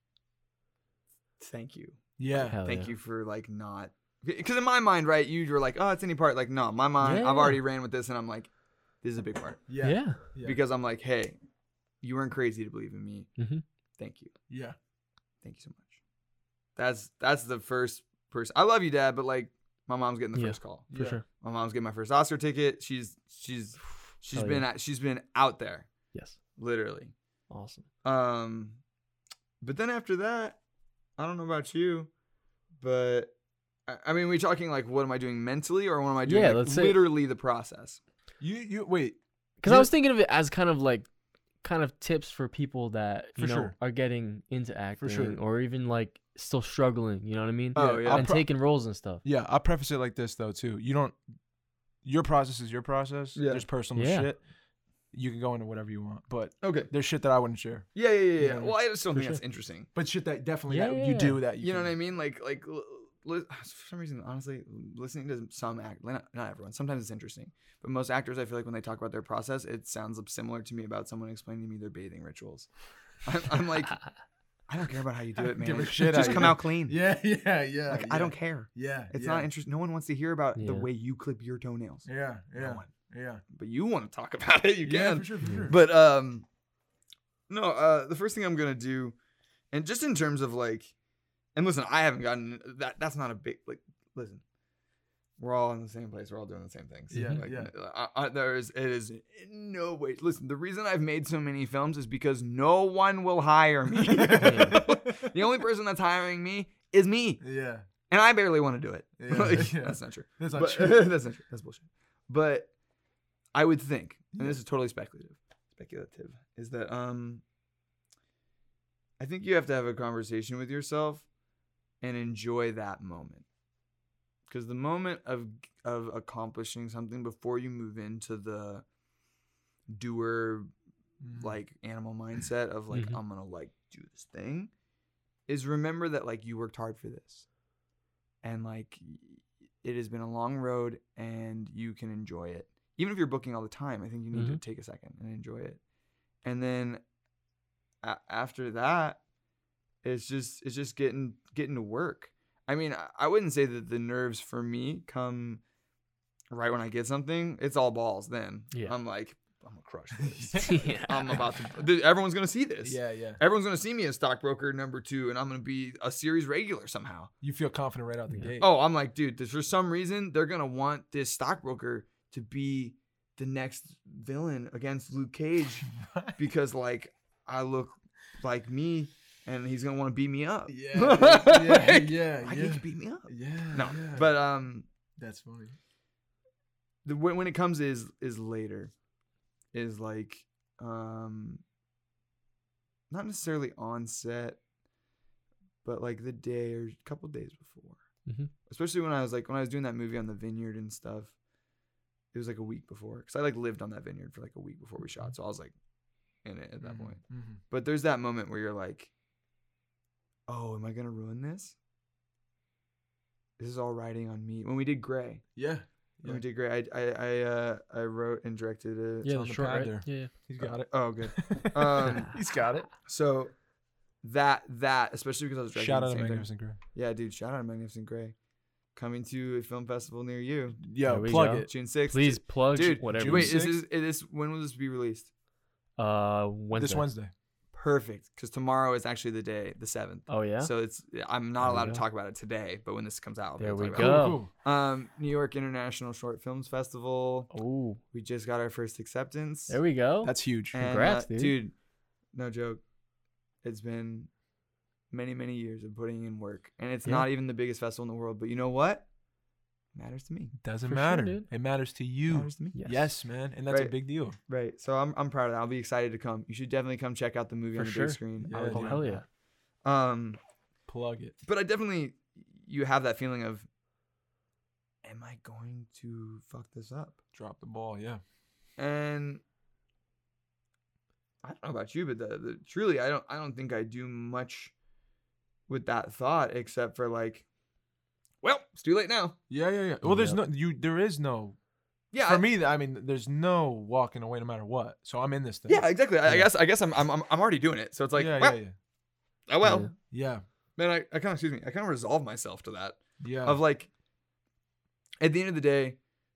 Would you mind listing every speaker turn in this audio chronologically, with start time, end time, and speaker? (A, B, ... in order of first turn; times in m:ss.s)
0:01.4-0:02.1 A
0:02.2-0:02.6 B
0:02.3-0:02.9 C
0:02.6-0:09.6 A
0:07.0-0:07.6 C
0:09.7-0:10.6 B
0:09.8-0:10.2 C
0:10.4-0:11.4 A
0:12.0-0:13.3 A
0:13.4-0:13.6 C
0:14.0-0:14.3 A
0:14.5-0:14.8 B
0:15.4-0:16.0 A
0:16.8-0:25.9 A
0:20.3-0:21.2 C
0:20.9-0:21.2 B
0:24.3-0:24.6 C
0:26.6-0:27.1 A
0:27.5-0:27.8 C
0:28.0-0:28.8 A
0:29.6-0:30.6 A
0:31.2-0:32.1 A
0:32.8-0:33.3 A
0:33.9-0:38.0 A
0:36.2-0:37.0 C
0:38.4-0:39.9 B
0:39.6-0:41.1 C
0:41.6-0:49.2 C
0:43.4-0:43.7 B
0:45.0-0:45.4 B
0:47.7-0:48.3 A
0:47.8-0:48.5 B
0:49.2-0:51.2 B
0:52.0-0:54.4 B
0:53.3-0:53.6 A
0:53.9-0:54.3 C
0:55.1-0:58.8 B
0:56.6-0:56.9 A
0:57.9-0:59.9 A
0:59.1-0:59.4 C
0:59.9-1:01.9 B
1:00.7-1:01.4 C
1:01.6-1:12.7 A
1:13.2-1:14.0 A
1:14.7-1:17.0 A
1:15.4-1:19.5 B
1:17.9-1:22.9 A
1:20.6-1:20.9 C
1:22.0-1:23.4 B
1:23.5-1:26.4 A
1:24.8-1:25.8 B
1:25.4-1:25.7 C
1:27.5-1:29.2 A
1:29.7-1:30.9 A
1:31.5-1:34.4 A
1:35.4-1:47.4 A
1:37.1-1:37.7 B
1:37.1-1:37.4 C
1:43.9-1:45.3 B
1:44.4-1:44.8 C
1:47.4-1:47.8 B
1:48.1-1:52.7 A
1:49.2-1:51.1 B
1:53.5-1:57.4 A
1:54.3-1:54.6 B
1:59.2-2:01.2 A
2:02.0-2:03.4 A
2:04.5-2:08.8 A
2:09.9-2:10.7 A
2:11.2-2:11.6 B
2:11.4-2:14.7 A
2:12.9-2:13.2 C
2:15.5-2:17.4 A
2:18.4-2:25.8 A
2:24.3-2:24.6 C
2:26.4-2:27.0 A
2:28.0-2:29.2 A
2:30.0-2:35.6 A
2:36.5-2:47.3 A
2:40.2-2:40.8 B
2:40.6-2:41.4 C
2:42.8-2:43.4 B
2:47.4-2:48.7 B
2:48.6-3:04.9 A
2:55.9-2:56.4 B
3:00.7-3:04.3 B
3:05.2-3:05.8 B
3:07.0-3:08.9 A
3:09.7-3:11.6 A
3:13.1-3:14.6 A
3:15.8-3:18.0 A
3:18.2-3:18.5 C
3:18.7-3:21.3 A
3:22.3-3:25.7 A
3:26.4-3:29.1 A
3:26.8-3:27.6 B
3:30.5-3:31.8 A
3:33.6-3:35.4 A
3:35.6-3:36.4 B
3:36.2-3:39.3 A
3:39.2-3:40.3 C
3:39.3-3:42.9 B
3:40.9-3:42.3 A
3:43.0-3:43.5 A
3:44.2-3:48.4 A
3:45.7-3:46.8 B
3:48.9-3:50.8 A
3:50.8-3:51.7 B
3:51.0-3:53.6 C
3:51.6-3:55.3 A
3:53.0-3:53.8 B
3:56.0-3:57.1 C
3:56.7-3:57.3 B
3:57.7-4:07.5 A
4:00.3-4:00.7 C
4:01.6-4:02.0 C
4:03.6-4:04.4 C
4:04.0-4:04.5 B
4:07.5-4:08.0 C
4:08.1-4:09.8 A
4:09.7-4:11.6 C
4:10.2-4:10.8 B
4:10.7-4:11.7 A
4:12.3-4:12.8 A
4:13.6-4:14.3 A
4:15.1-4:19.1 A
4:19.9-4:20.5 A
4:20.6-4:24.4 B
4:20.9-4:21.5 C
4:22.3-4:22.8 A
4:22.7-4:23.1 C
4:23.7-4:23.9 A
4:24.4-4:29.2 A
4:27.7-4:29.2 C
4:28.4-4:29.1 B
4:29.8-4:30.4 A
4:30.9-4:31.3 B
4:31.4-4:33.7 A
4:35.0-4:37.2 A
4:37.3-4:38.2 B
4:38.8-4:39.4 A
4:41.4-4:44.7 A
4:45.7-4:47.4 A
4:48.4-4:49.4 A
4:49.5-4:51.6 B
4:50.0-4:50.4 C
4:52.1-4:52.4 A
4:52.2-4:56.5 B
4:55.7-4:58.6 A
4:58.1-4:58.7 B
4:59.5-4:59.9 A
4:59.6-4:59.9 C
4:59.9-5:00.4 B
5:00.8-5:03.9 A
5:03.2-5:03.6 B
5:05.2-5:06.0 A